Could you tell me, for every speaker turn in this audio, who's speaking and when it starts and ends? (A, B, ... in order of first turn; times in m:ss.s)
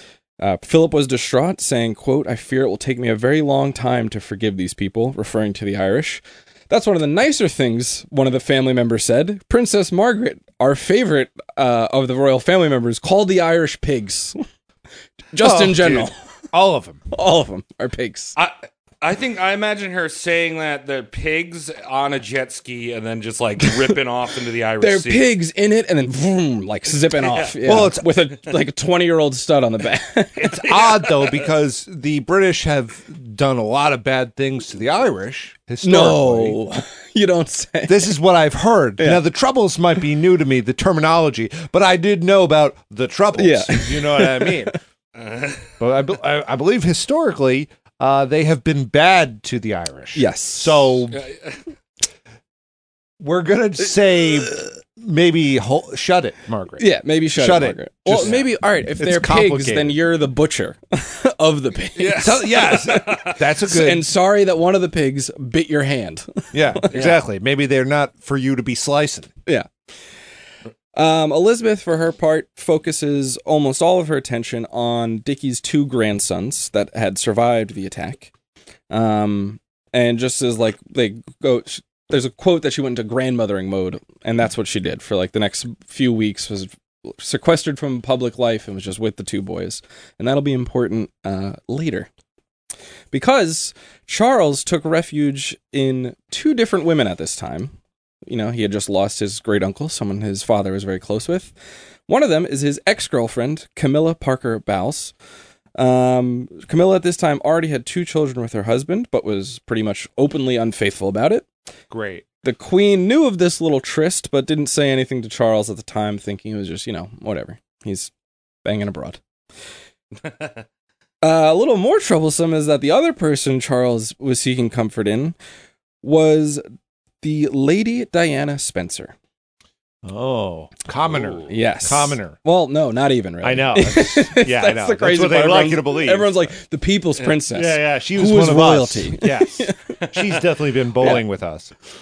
0:00.4-0:14.4 A
0:15.3-0:16.2 A
0:15.4-0:17.0 B
0:17.1-0:18.4 A
0:18.4-0:25.3 C
0:24.8-0:30.5 A
0:27.1-0:27.5 C
0:27.6-0:28.0 B
0:30.4-0:31.5 C
0:30.4-0:36.6 B
0:35.8-0:38.1 A
0:37.9-0:44.7 B
0:39.0-0:39.2 A
0:43.4-0:44.7 A
0:45.2-0:45.7 C
0:45.8-0:51.2 B
0:50.1-0:50.9 A
0:51.1-0:51.6 C
0:53.2-1:00.0 B
0:56.8-1:07.1 A
1:02.0-1:03.4 C
1:02.1-1:04.1 B
1:06.5-1:09.3 B
1:06.9-1:07.2 C
1:10.9-1:18.3 A
1:18.9-1:32.1 A
1:33.1-1:37.7 A
1:38.3-1:41.5 A
1:42.1-1:45.1 A
1:45.8-1:51.4 A
1:51.9-1:52.2 B
1:52.4-1:58.1 A
1:58.6-1:59.2 A
2:00.2-2:00.6 C
2:01.2-2:05.4 A
2:06.0-2:06.6 A
2:07.2-2:09.1 A
2:10.0-2:12.4 B
2:11.1-2:11.5 C
2:11.5-2:20.0 A
2:13.4-2:16.5 B
2:17.5-2:21.7 B